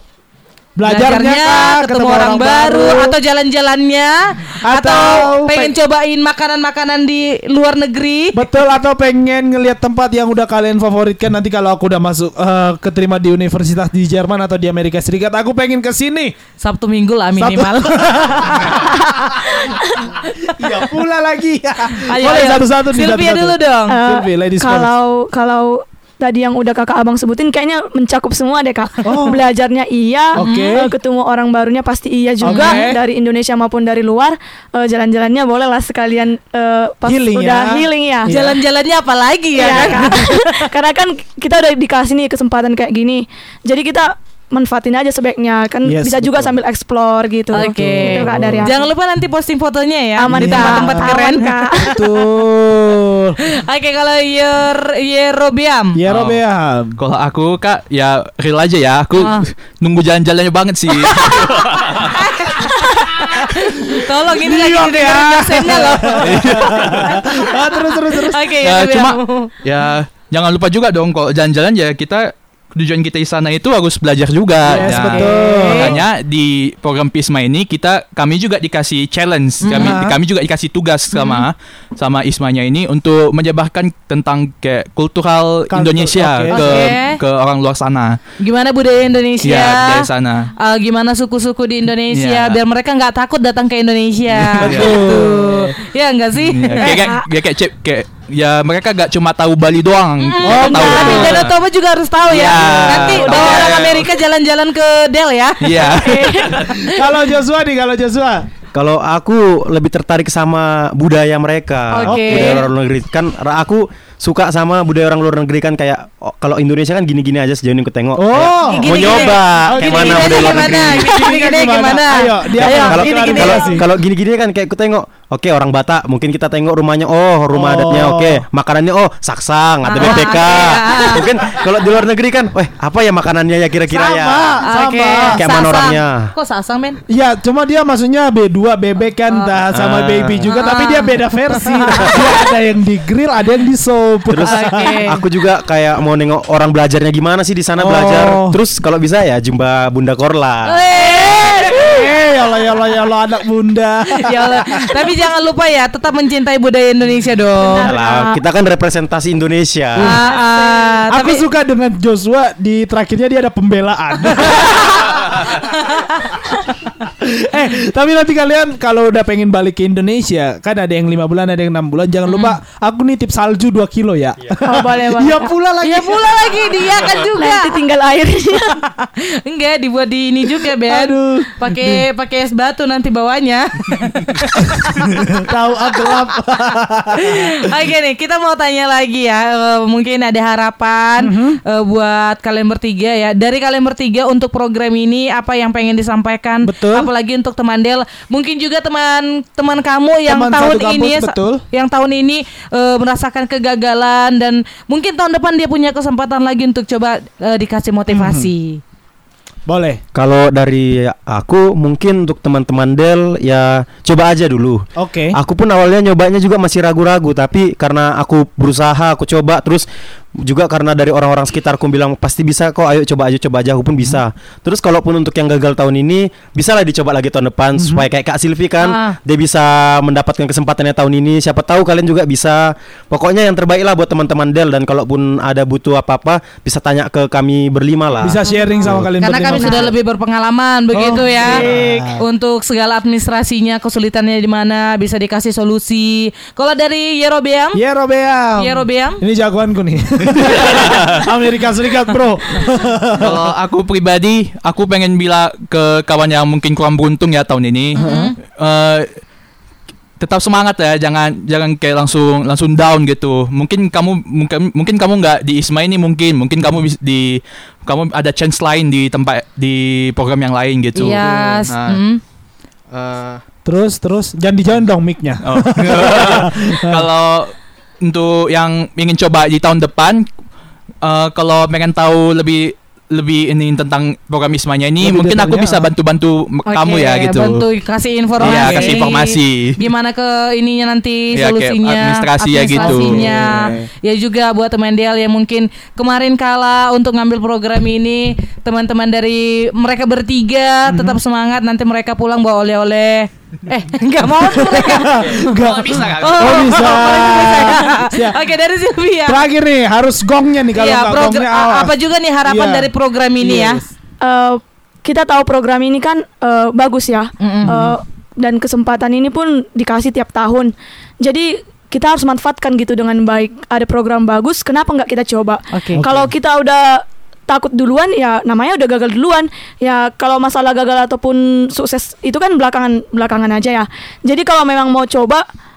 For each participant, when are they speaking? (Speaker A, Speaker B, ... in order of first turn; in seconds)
Speaker A: 0.8-3.1, 4.7-5.7, 8.3-16.4, 17.4-19.7, 20.2-24.9, 29.0-29.4, 30.4-30.9, 32.4-33.0, 37.1-38.6, 45.9-46.5, 47.5-48.7, 50.3-53.4, 56.0-57.0, 63.6-68.5, 74.7-76.0, 79.8-80.2, 85.7-86.9, 94.3-95.8, 100.4-101.5, 106.6-108.5, 112.1-112.6, 118.2-123.8, 127.5-128.4, 133.9-135.4, 137.1-145.0, 147.8-148.6, 151.3-155.1, 160.0-160.3, 161.1-165.4, 167.0-176.4, 180.9-182.1, 184.6-187.6, 191.2-191.6, 196.6-197.1, 200.3-201.6, 208.1-208.5, 209.7-210.0, 215.0-215.3, 227.8-228.1, 238.2-239.9, 240.9-242.2, 247.7-253.5, 258.0-258.3, 271.2-271.7, 273.6-277.1, 285.0-285.9, 288.4-289.1, 292.8-293.9, 300.9-301.2, 304.4-308.4, 309.3-313.9, 317.7-317.9, 325.9-326.3
Speaker B: 0.8-8.4, 16.6-18.5, 22.1-24.0, 30.4-30.8, 32.5-32.9, 38.3-40.7, 47.5-51.9, 53.4-56.0, 59.2-59.5, 61.1-69.5, 74.7-76.0, 79.6-80.0, 81.1-81.5, 86.5-87.2, 88.4-97.2, 100.2-106.9, 111.9-112.7, 118.6-123.8, 129.9-131.3, 134.6-137.0, 140.5-142.3, 144.4-145.2, 150.7-152.1, 154.2-158.4, 160.0-161.4, 164.6-166.1, 172.3-172.6, 175.8-177.8, 178.7-185.2, 186.0-186.2, 187.1-208.8, 228.8-229.2, 239.2-247.8, 248.6-249.2, 258.0-258.4, 270.9-272.2, 286.7-305.5, 306.2-309.4, 310.7-313.8, 317.4-317.9, 325.7-326.0
Speaker C: 18.8-20.1, 23.9-38.3, 39.5-48.9, 50.2-52.1, 102.9-103.8, 105.9-106.6, 174.7-175.5, 177.4-178.8, 314.2-335.4
Speaker D: 56.1-56.4, 57.0-62.2, 66.2-67.1, 68.6-88.2, 89.4-90.5, 92.1-92.6, 94.6-95.0, 96.4-101.5, 102.3-104.1, 105.6-106.8, 253.2-259.1, 260.2-272.0, 272.9-273.4, 275.4-280.3, 281.0-287.6, 288.4-289.8, 291.3-293.5, 305.4-307.2
Speaker E: 108.7-121.1, 122.6-134.6, 135.3-136.3, 139.7-140.5, 144.3-150.9, 157.7-160.2, 210.2-214.8, 215.3-219.8, 220.4-239.1